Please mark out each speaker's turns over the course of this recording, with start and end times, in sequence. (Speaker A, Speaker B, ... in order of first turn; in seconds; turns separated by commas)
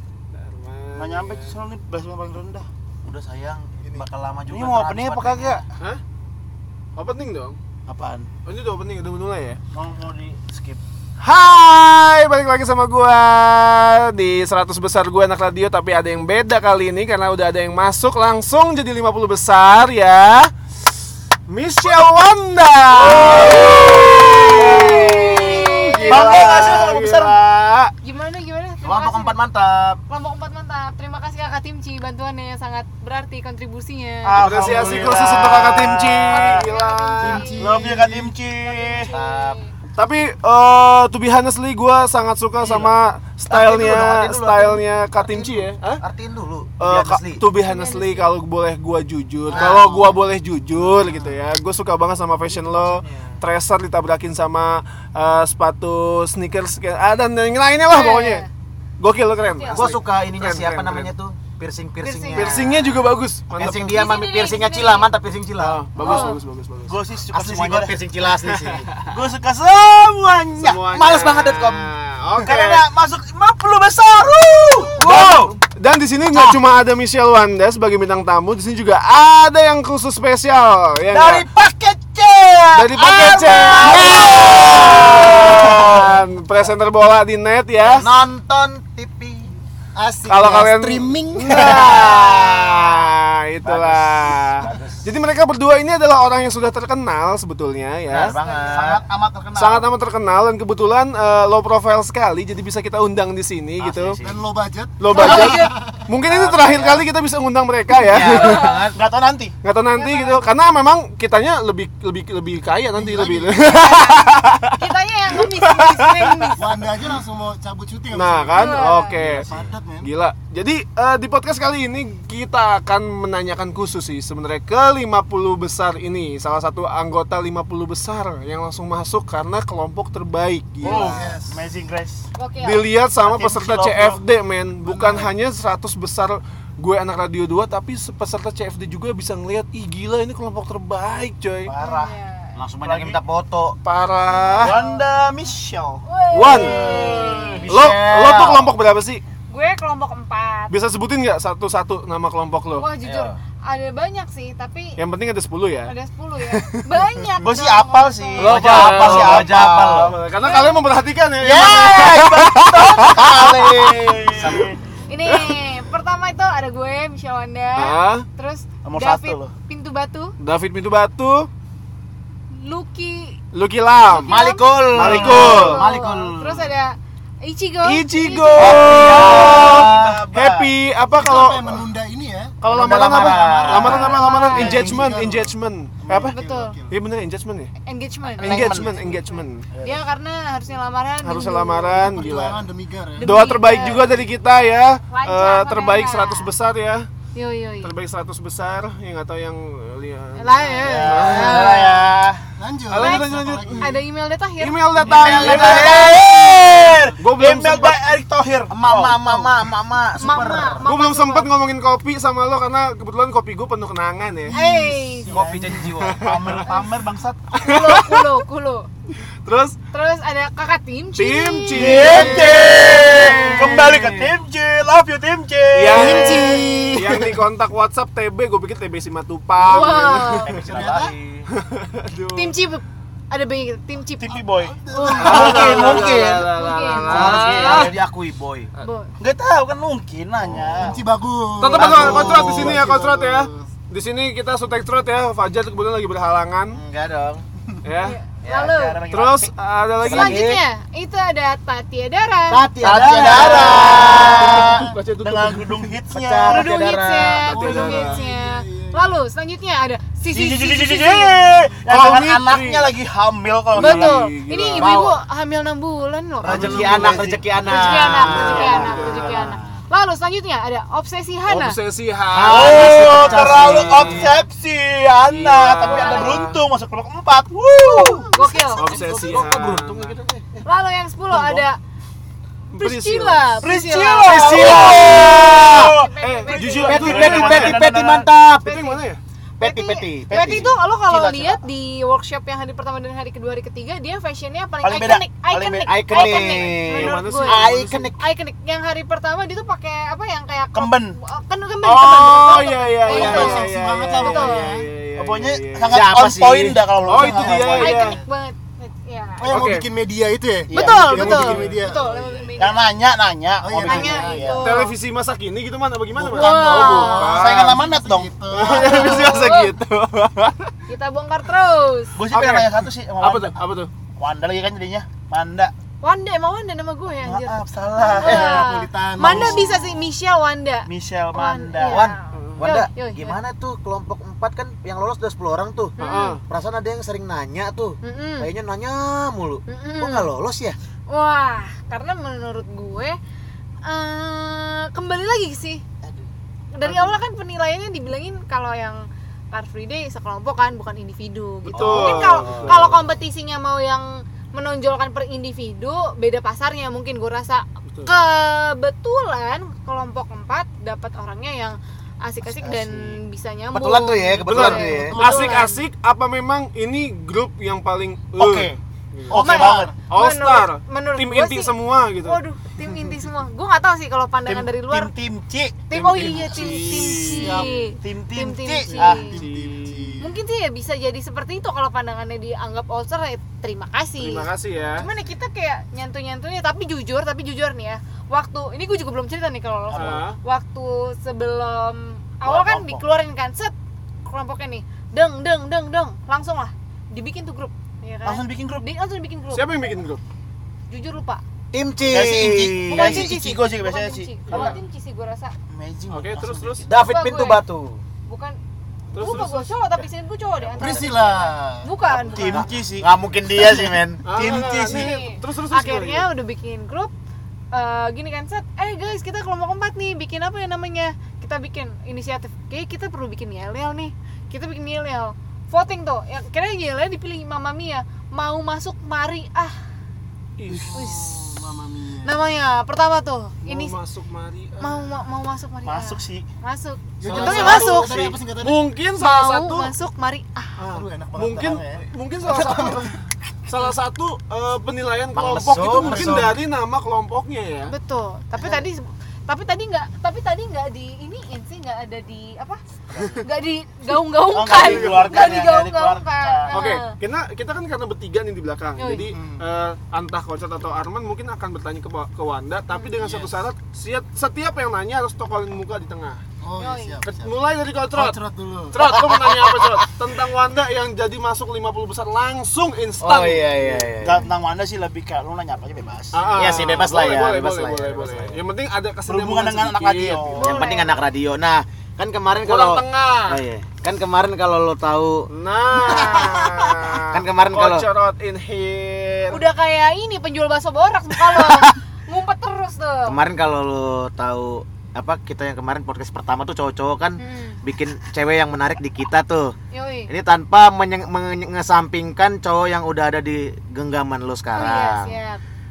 Speaker A: 0.3-1.5, Speaker B: 1.0-2.7, Speaker C: 3.0-5.6, Speaker B: 4.5-5.6, Speaker A: 7.0-7.6, Speaker B: 7.9-8.3, Speaker A: 8.5-9.6, Speaker B: 9.7-10.5, Speaker C: 10.5-10.8, Speaker A: 11.2-20.5, Speaker A: 21.5-27.4, Speaker B: 23.3-25.0, Speaker D: 23.5-26.5, Speaker B: 26.1-27.9, Speaker D: 28.0-29.4, Speaker C: 28.8-30.0, Speaker D: 30.1-35.2, Speaker B: 34.2-36.6, Speaker A: 34.3-37.5, Speaker D: 36.3-37.8, Speaker E: 37.2-38.3, Speaker B: 37.6-39.1, Speaker D: 38.6-39.7, Speaker C: 39.1-39.6, Speaker A: 40.0-46.0, Speaker C: 42.6-42.9, Speaker C: 43.5-47.4, Speaker A: 46.8-58.5, Speaker D: 47.6-48.4, Speaker C: 49.5-50.3, Speaker B: 49.5-49.8, Speaker C: 50.9-51.3, Speaker C: 52.6-53.4, Speaker D: 57.9-58.5, Speaker A: 59.0-61.1, Speaker D: 59.5-59.9, Speaker C: 59.7-66.2, Speaker D: 62.0-62.6, Speaker A: 62.3-63.9, Speaker D: 63.6-65.1, Speaker A: 65.6-67.0, Speaker D: 66.0-66.4, Speaker B: 66.0-66.3, Speaker B: 66.9-68.0, Speaker C: 67.3-68.9, Speaker A: 68.4-69.1, Speaker B: 69.0-70.9, Speaker A: 70.6-72.8, Speaker C: 70.9-71.9, Speaker B: 72.4-75.4, Speaker C: 75.0-75.6, Speaker A: 75.0-81.5, Speaker B: 81.1-86.1, Speaker C: 81.2-82.2, Speaker A: 82.7-88.1, Speaker C: 82.9-86.0, Speaker C: 87.8-89.5, Speaker E: 90.0-92.2, Speaker A: 90.3-98.4, Speaker C: 93.7-94.1, Speaker C: 94.6-95.1, Speaker C: 98.1-99.0, Speaker B: 98.1-99.9, Speaker A: 99.6-104.2, Speaker C: 103.8-104.4, Speaker E: 104.2-106.0, Speaker A: 105.0-108.7, Speaker D: 105.1-105.7, Speaker C: 106.2-107.1, Speaker C: 108.1-109.0, Speaker D: 108.2-108.9, Speaker B: 108.9-109.5, Speaker A: 109.6-114.8, Speaker D: 109.9-110.5, Speaker E: 113.0-113.7, Speaker D: 113.6-116.6, Speaker A: 115.4-116.5, Speaker E: 116.6-120.1, Speaker A: 118.1-119.5, Speaker D: 118.5-119.2, Speaker C: 119.5-119.7, Speaker A: 120.0-131.2, Speaker B: 130.8-132.3, Speaker E: 130.9-131.6, Speaker D: 130.9-131.2, Speaker D: 132.3-132.9, Speaker A: 132.6-141.7, Speaker B: 133.2-134.2, Speaker E: 134.8-135.3, Speaker B: 141.7-142.1, Speaker D: 141.8-142.5, Speaker C: 142.6-143.8, Speaker B: 142.8-143.2, Speaker A: 143.8-144.8, Speaker D: 144.3-145.1, Speaker B: 144.6-147.7, Speaker D: 146.1-147.7, Speaker A: 146.3-146.8, Speaker C: 147.3-148.7, Speaker A: 147.7-149.2, Speaker D: 149.5-150.8, Speaker A: 150.7-152.9, Speaker D: 152.8-155.0, Speaker C: 153.0-153.4, Speaker A: 155.0-155.9, Speaker D: 155.8-158.6, Speaker B: 157.4-159.7, Speaker A: 158.4-164.6, Speaker C: 158.4-160.2, Speaker D: 160.4-160.9, Speaker B: 161.4-164.8, Speaker C: 161.4-164.2, Speaker D: 165.1-170.3, Speaker A: 165.3-165.5, Speaker A: 167.8-168.2, Speaker B: 168.8-169.5, Speaker A: 170.4-171.5, Speaker D: 172.5-173.4, Speaker A: 173.5-174.3, Speaker D: 174.2-178.9, Speaker C: 174.3-176.8, Speaker A: 174.9-175.8, Speaker A: 177.8-181.8, Speaker C: 178.6-180.2, Speaker B: 178.6-180.7, Speaker E: 181.1-182.6, Speaker A: 182.6-186.3, Speaker C: 182.7-184.7, Speaker B: 183.5-183.9, Speaker D: 183.8-184.9, Speaker E: 184.5-185.5, Speaker B: 184.7-185.1, Speaker E: 186.1-187.0, Speaker D: 186.2-186.8, Speaker A: 186.9-187.7, Speaker D: 187.9-192.3, Speaker C: 188.4-189.0, Speaker A: 188.4-189.7, Speaker B: 189.7-190.0, Speaker A: 191.2-192.6, Speaker E: 192.0-193.5, Speaker D: 193.2-194.2, Speaker A: 193.2-197.1, Speaker D: 195.1-196.5, Speaker D: 197.3-197.9, Speaker A: 197.8-201.8, Speaker D: 200.4-202.0, Speaker B: 200.8-202.4, Speaker C: 201.4-201.7, Speaker E: 202.6-204.0, Speaker A: 202.9-204.0, Speaker D: 203.0-206.1, Speaker A: 204.6-206.6, Speaker C: 205.0-206.2, Speaker B: 205.3-209.6, Speaker A: 207.2-208.0, Speaker C: 208.7-210.9, Speaker D: 210.2-211.5, Speaker A: 210.8-214.6, Speaker D: 214.5-215.4, Speaker E: 214.6-215.0, Speaker B: 215.3-217.6, Speaker C: 215.3-216.6, Speaker A: 216.0-216.6, Speaker D: 216.6-216.9, Speaker A: 217.5-218.2, Speaker D: 217.6-218.9, Speaker A: 219.4-219.8, Speaker D: 219.9-222.2, Speaker A: 221.1-224.3, Speaker B: 221.8-226.6, Speaker C: 222.1-222.6, Speaker A: 225.7-226.3, Speaker E: 225.9-227.4, Speaker D: 225.9-226.9, Speaker A: 226.9-230.6, Speaker D: 229.6-230.5, Speaker B: 229.7-231.1, Speaker E: 230.7-231.1, Speaker C: 230.7-231.5, Speaker A: 231.6-232.6, Speaker D: 232.3-234.4, Speaker B: 234.2-236.5, Speaker E: 234.8-236.2, Speaker D: 234.9-237.3, Speaker A: 235.1-237.9, Speaker C: 235.8-236.2, Speaker C: 237.0-238.7, Speaker B: 237.1-238.0, Speaker D: 238.8-239.1, Speaker B: 239.2-241.0, Speaker C: 240.4-240.9, Speaker E: 240.8-243.7, Speaker A: 241.6-246.8, Speaker C: 241.8-242.8, Speaker C: 246.7-247.4, Speaker A: 247.8-248.2, Speaker D: 248.0-249.0, Speaker C: 248.4-249.0, Speaker B: 248.5-249.5, Speaker A: 249.1-250.4, Speaker C: 250.0-250.6, Speaker D: 250.0-252.7, Speaker C: 252.5-254.9, Speaker B: 252.8-256.7, Speaker A: 253.1-255.9, Speaker C: 256.1-257.6, Speaker D: 256.5-261.7, Speaker E: 257.5-259.2, Speaker A: 257.5-258.2, Speaker B: 260.3-264.2, Speaker A: 261.9-262.9, Speaker A: 263.7-264.9, Speaker D: 263.8-271.8, Speaker C: 264.8-265.2, Speaker C: 266.4-269.8, Speaker A: 266.5-267.3, Speaker B: 266.5-269.3, Speaker A: 268.2-269.5, Speaker A: 271.5-274.3, Speaker C: 272.3-274.4, Speaker B: 272.4-278.7, Speaker A: 275.2-276.6, Speaker D: 275.8-276.5, Speaker D: 277.8-278.9, Speaker C: 278.7-280.6, Speaker A: 278.8-280.2, Speaker D: 280.6-281.8, Speaker B: 281.3-281.7, Speaker A: 282.7-283.7, Speaker D: 282.8-284.7, Speaker B: 283.6-288.3, Speaker C: 284.3-285.9, Speaker A: 284.6-287.8, Speaker D: 285.7-287.5, Speaker C: 286.9-288.8, Speaker D: 288.7-289.0, Speaker A: 288.7-289.2, Speaker C: 289.6-290.7, Speaker D: 289.6-304.8, Speaker B: 290.3-291.6, Speaker B: 294.8-296.7, Speaker C: 295.9-298.2, Speaker A: 296.9-298.1, Speaker B: 300.7-301.2, Speaker A: 301.8-306.0, Speaker B: 302.5-303.6, Speaker E: 303.1-304.9, Speaker B: 305.1-308.2, Speaker C: 305.9-306.9, Speaker A: 307.1-308.2, Speaker E: 307.1-307.9, Speaker D: 307.8-309.7, Speaker E: 309.4-312.6, Speaker A: 309.5-309.9, Speaker D: 310.7-312.9, Speaker B: 310.7-311.7, Speaker A: 311.2-311.8, Speaker B: 312.6-314.6, Speaker E: 313.6-314.6, Speaker D: 313.8-314.9, Speaker A: 314.6-317.8, Speaker E: 316.2-319.3, Speaker D: 316.4-317.3, Speaker B: 317.2-318.3, Speaker A: 318.5-320.7, Speaker D: 318.7-319.8, Speaker D: 320.9-322.2, Speaker B: 322.2-323.6, Speaker A: 322.3-323.9, Speaker B: 324.2-325.7, Speaker D: 326.0-333.4, Speaker B: 327.2-328.6, Speaker E: 328.2-329.8, Speaker B: 329.2-329.8, Speaker B: 330.9-332.1, Speaker C: 331.9-336.0, Speaker A: 332.3-332.7, Speaker D: 336.0-336.4, Speaker A: 336.0-336.4, Speaker C: 336.5-340.8, Speaker D: 338.0-338.5, Speaker D: 339.7-340.3, Speaker D: 341.1-343.2, Speaker D: 343.8-345.8, Speaker D: 346.7-365.8, Speaker A: 351.7-353.0, Speaker C: 351.7-352.8, Speaker A: 357.9-358.1, Speaker B: 362.6-363.2, Speaker C: 363.7-365.2, Speaker A: 364.5-369.4, Speaker E: 364.9-365.7, Speaker B: 368.4-369.9, Speaker D: 369.3-375.1, Speaker E: 369.4-369.9, Speaker A: 370.1-372.4, Speaker B: 374.5-377.1, Speaker D: 375.9-379.4, Speaker A: 376.0-377.8, Speaker E: 377.2-377.8, Speaker B: 378.0-379.4, Speaker E: 378.9-380.3, Speaker A: 379.4-380.2, Speaker D: 380.2-399.7, Speaker A: 384.2-385.1, Speaker B: 389.9-390.3, Speaker A: 389.9-390.4, Speaker B: 392.4-393.0, Speaker B: 398.2-398.9, Speaker A: 399.5-400.2, Speaker D: 400.9-401.4, Speaker C: 401.7-403.3, Speaker B: 402.1-404.8, Speaker D: 402.9-405.5, Speaker A: 404.5-404.8, Speaker B: 405.7-406.9, Speaker A: 406.1-406.9, Speaker C: 406.9-408.0, Speaker D: 406.9-407.6, Speaker D: 408.3-408.6, Speaker A: 409.1-409.7, Speaker D: 409.1-412.7, Speaker C: 410.7-411.2, Speaker E: 410.8-411.9, Speaker B: 412.1-415.2, Speaker C: 412.4-414.4, Speaker A: 414.2-416.3, Speaker D: 414.8-417.1, Speaker D: 417.7-429.8, Speaker A: 430.6-430.9, Speaker B: 430.7-431.9, Speaker D: 430.9-431.6, Speaker E: 431.0-432.4, Speaker D: 432.2-434.0, Speaker A: 433.6-435.1, Speaker D: 434.8-438.3, Speaker B: 435.8-436.5, Speaker E: 437.2-438.9, Speaker A: 437.3-439.9, Speaker B: 437.4-438.3, Speaker D: 439.2-440.8, Speaker A: 440.8-443.1, Speaker E: 440.9-443.1, Speaker A: 443.7-447.9, Speaker C: 445.3-446.4, Speaker E: 445.9-446.6, Speaker D: 447.9-452.8, Speaker B: 448.6-448.8, Speaker B: 453.1-453.4, Speaker D: 453.4-457.2, Speaker B: 454.5-456.8, Speaker A: 454.7-455.4, Speaker A: 456.7-466.4, Speaker D: 459.0-459.3, Speaker E: 459.3-459.6, Speaker E: 466.6-467.6, Speaker D: 466.8-467.2, Speaker A: 467.3-468.4, Speaker E: 468.1-469.1, Speaker A: 468.9-474.1, Speaker C: 469.1-469.4, Speaker C: 473.2-474.5, Speaker B: 474.2-476.6, Speaker A: 476.3-480.6, Speaker C: 476.6-478.6, Speaker B: 479.3-481.0, Speaker D: 480.5-481.2, Speaker C: 480.6-485.5, Speaker A: 482.6-483.6, Speaker A: 485.5-489.6, Speaker D: 486.1-487.1, Speaker C: 487.3-488.1, Speaker D: 489.5-493.4, Speaker C: 493.3-499.8, Speaker D: 497.4-497.8, Speaker D: 499.9-500.3, Speaker C: 500.3-505.4, Speaker D: 504.7-505.6